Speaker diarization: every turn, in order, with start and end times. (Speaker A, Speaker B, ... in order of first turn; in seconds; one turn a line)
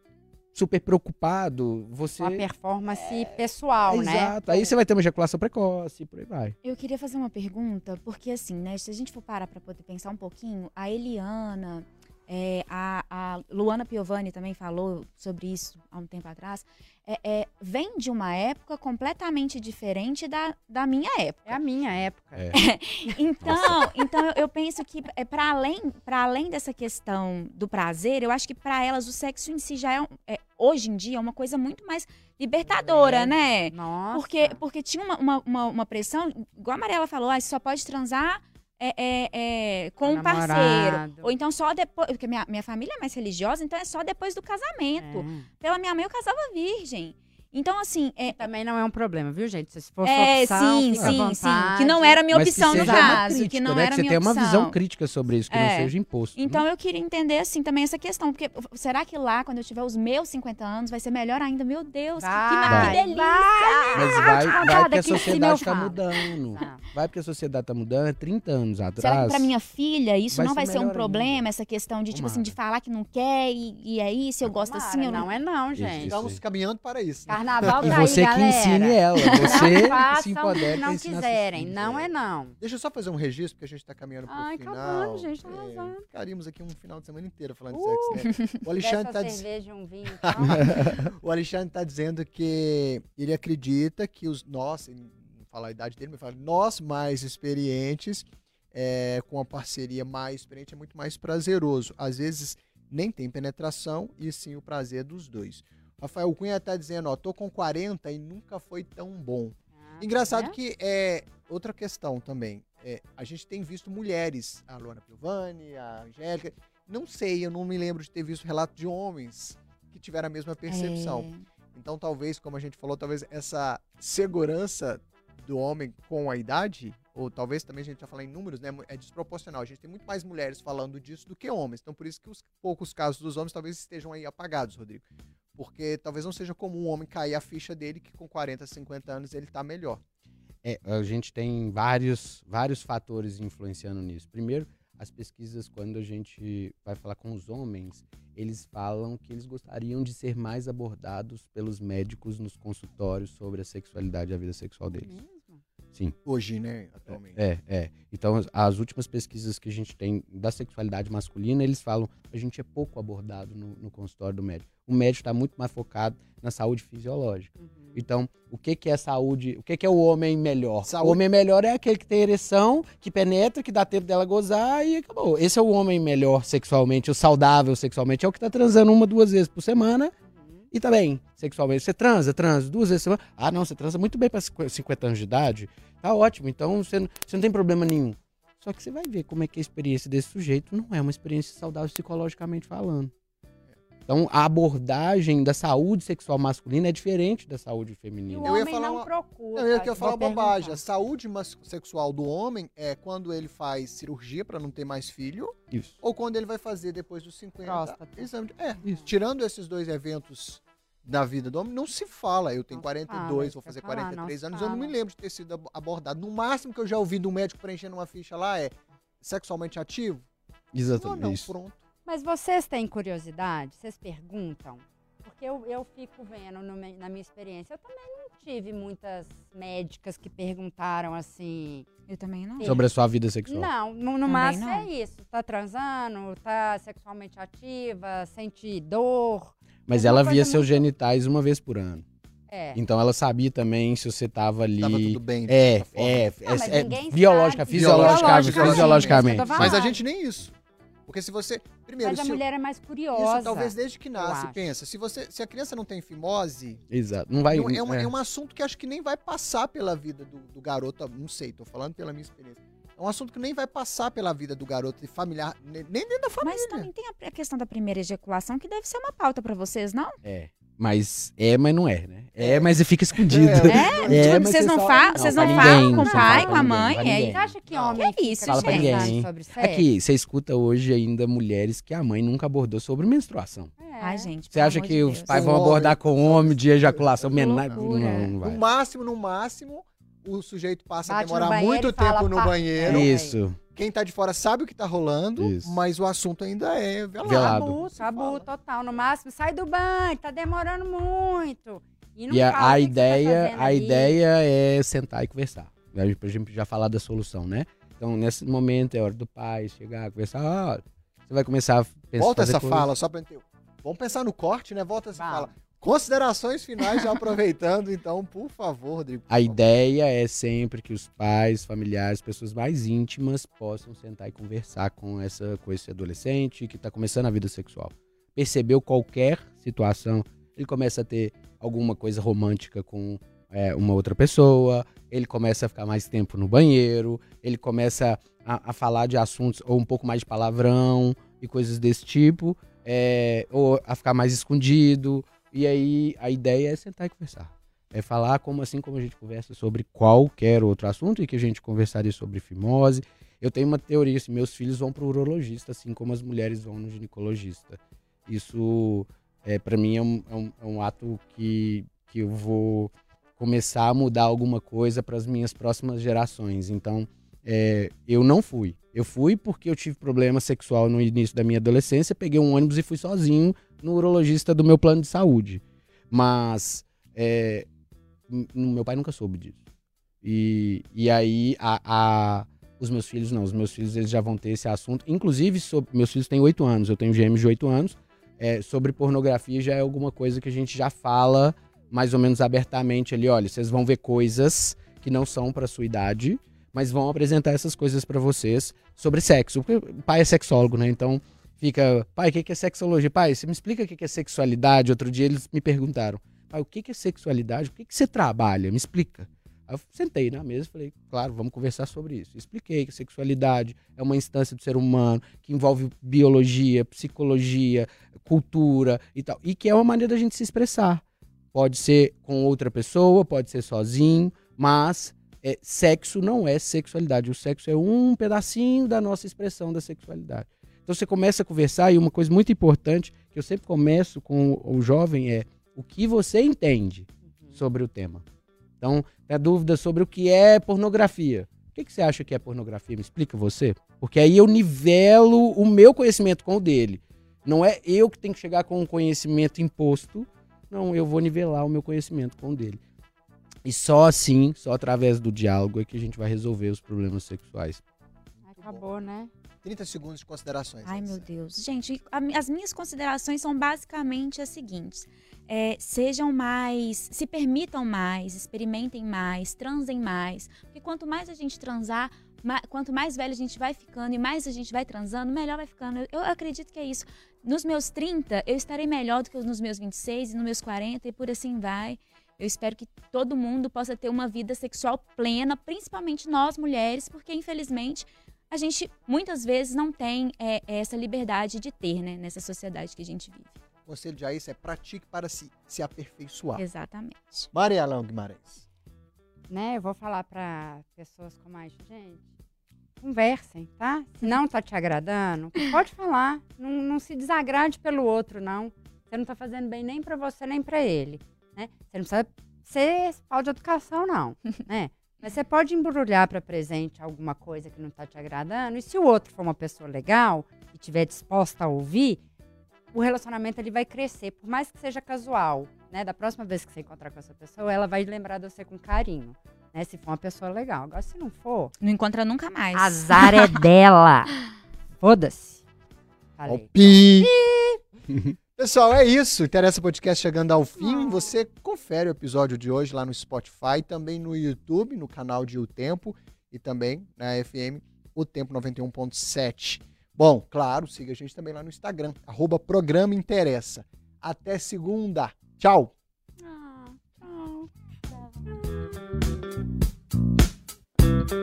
Speaker A: 0.5-2.5
Speaker B: 2.2-4.7
Speaker A: 3.0-6.5
Speaker C: 6.6-21.6
Speaker B: 21.5-23.9
Speaker C: 22.5-48.5
Speaker A: 23.4-23.8
Speaker B: 32.7-34.6
Speaker B: 40.0-41.3
Speaker B: 45.0-45.5
Speaker B: 48.3-53.2
Speaker C: 50.0-54.8
Speaker A: 52.3-56.6
Speaker C: 55.5-64.7
Speaker B: 62.2-66.8
Speaker A: 62.7-63.0
Speaker A: 64.0-69.5
Speaker C: 69.0-75.3
Speaker A: 70.3-71.4
Speaker A: 72.1-72.6
Speaker B: 74.5-76.2
Speaker A: 75.8-76.4
Speaker D: 76.1-78.2
Speaker B: 77.3-82.6
Speaker A: 77.8-81.8
Speaker C: 79.2-79.9
Speaker D: 81.8-89.5
Speaker B: 84.3-86.0
Speaker B: 87.7-90.9
Speaker D: 90.2-135.1
Speaker A: 90.5-90.9
Speaker B: 109.8-110.6
Speaker C: 120.7-121.4
Speaker D: 135.6-140.0
Speaker A: 140.6-155.2
Speaker B: 154.9-155.6
Speaker D: 156.2-157.4
Speaker A: 157.1-180.1
Speaker B: 167.6-168.0
Speaker D: 170.8-171.2
Speaker B: 180.3-180.7
Speaker A: 180.7-193.1
Speaker A: 194.1-198.6
Speaker B: 198.3-200.8
Speaker D: 198.4-220.3
Speaker A: 205.7-206.0
Speaker B: 207.6-208.3
Speaker B: 208.8-209.1
Speaker B: 212.7-214.9
Speaker A: 220.7-221.5
Speaker D: 220.9-221.8
Speaker B: 222.1-231.9
Speaker C: 232.1-232.8
Speaker B: 232.6-232.8
Speaker A: 232.6-233.7
Speaker B: 233.5-240.7
Speaker C: 234.2-234.9
Speaker A: 239.9-242.0
Speaker B: 242.5-242.8
Speaker A: 242.8-249.8
Speaker D: 244.8-246.2
Speaker B: 246.4-250.0
Speaker D: 247.7-250.6
Speaker D: 251.1-252.4
Speaker B: 252.0-254.7
Speaker D: 253.2-256.8
Speaker A: 256.9-258.1
Speaker D: 257.5-266.9
Speaker C: 266.4-270.2
Speaker A: 270.2-277.5
Speaker D: 272.4-274.5
Speaker C: 273.6-277.1
Speaker B: 274.8-279.9
Speaker D: 277.7-278.0
Speaker C: 278.0-279.1
Speaker A: 278.5-283.7
Speaker B: 283.8-284.3
Speaker C: 284.0-285.6
Speaker A: 284.5-288.6
Speaker D: 285.3-293.1
Speaker C: 287.3-288.3
Speaker B: 291.1-293.4
Speaker A: 292.9-293.6
Speaker D: 293.8-298.5
Speaker A: 295.4-295.8
Speaker A: 297.2-297.8
Speaker B: 297.2-304.2
Speaker A: 302.3-312.9
Speaker D: 312.2-319.6
Speaker B: 315.1-315.5
Speaker A: 319.3-377.7
Speaker A: 378.3-379.6
Speaker A: 380.2-421.0
Speaker A: 421.5-438.2
Speaker B: 437.3-437.6
Speaker A: 438.8-452.8
Speaker A: 453.6-457.8
Speaker B: 458.4-459.3
Speaker D: 458.6-458.9
Speaker D: 459.6-461.2
Speaker C: 460.9-493.6
Speaker D: 493.9-496.6
Speaker C: 496.6-497.5
Speaker D: 497.5-498.5
Speaker B: 499.5-502.2
Speaker B: 503.0-522.2
Speaker B: 522.9-531.7
Speaker C: 531.8-533.6
Speaker B: 532.7-534.4
Speaker B: 535.0-535.6
Speaker B: 536.4-537.8
Speaker D: 536.5-537.3
Speaker D: 538.6-555.9
Speaker B: 540.8-541.4
Speaker B: 556.4-557.7